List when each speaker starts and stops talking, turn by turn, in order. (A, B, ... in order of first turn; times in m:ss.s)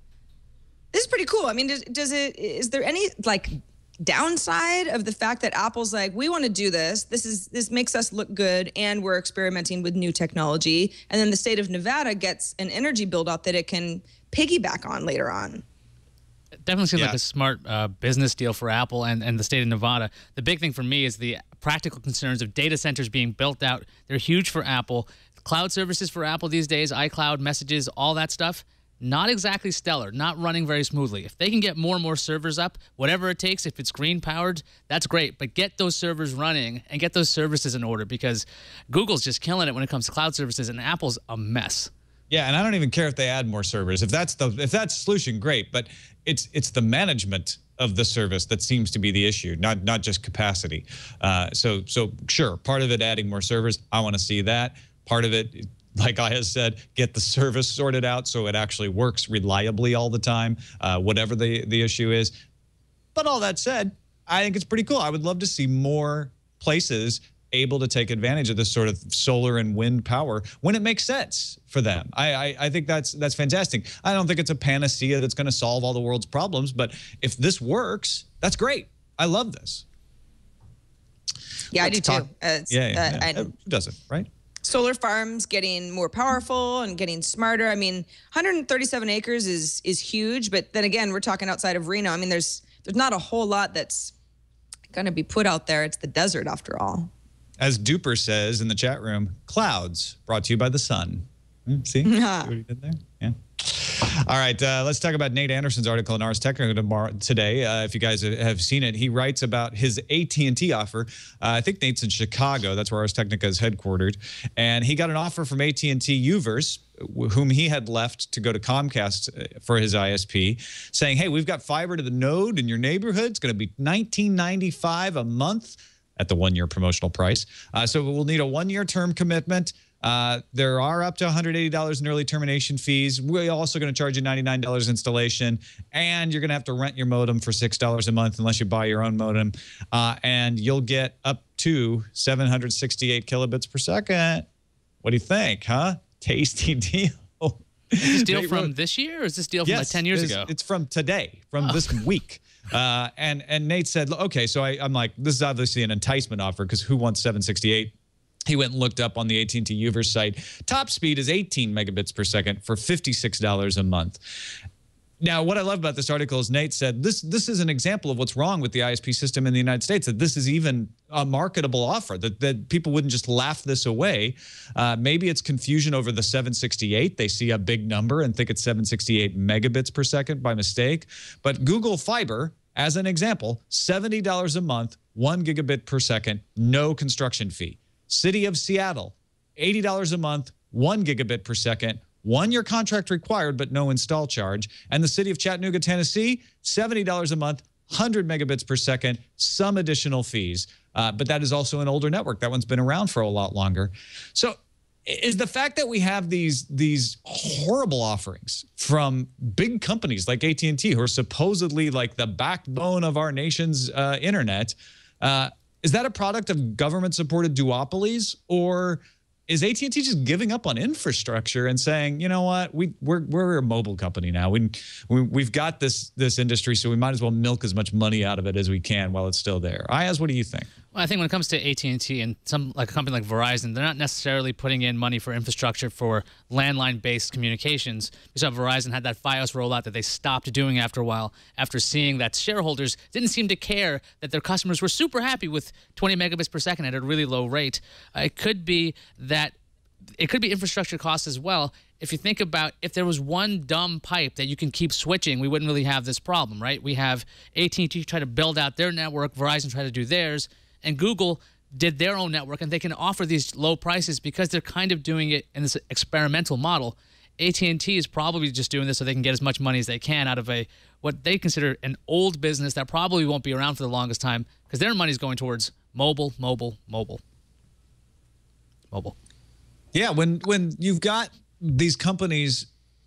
0:00.9-0:15.6 A
0:16.6-0:41.9 B
0:42.3-1:02.3 C
1:03.1-1:19.8 C
1:21.7-1:23.5 A
1:21.8-1:24.3 C
1:24.6-1:34.1 A
1:34.9-1:37.1 A
1:37.6-2:24.5 C
1:42.0-1:42.5 A
2:25.0-2:28.7 C
2:28.0-2:30.5 B
2:29.6-2:37.9 C
2:38.5-2:44.2 C
2:45.2-3:50.7 C
3:50.9-4:09.5 B
4:10.2-4:37.2 B
4:39.9-4:42.7 C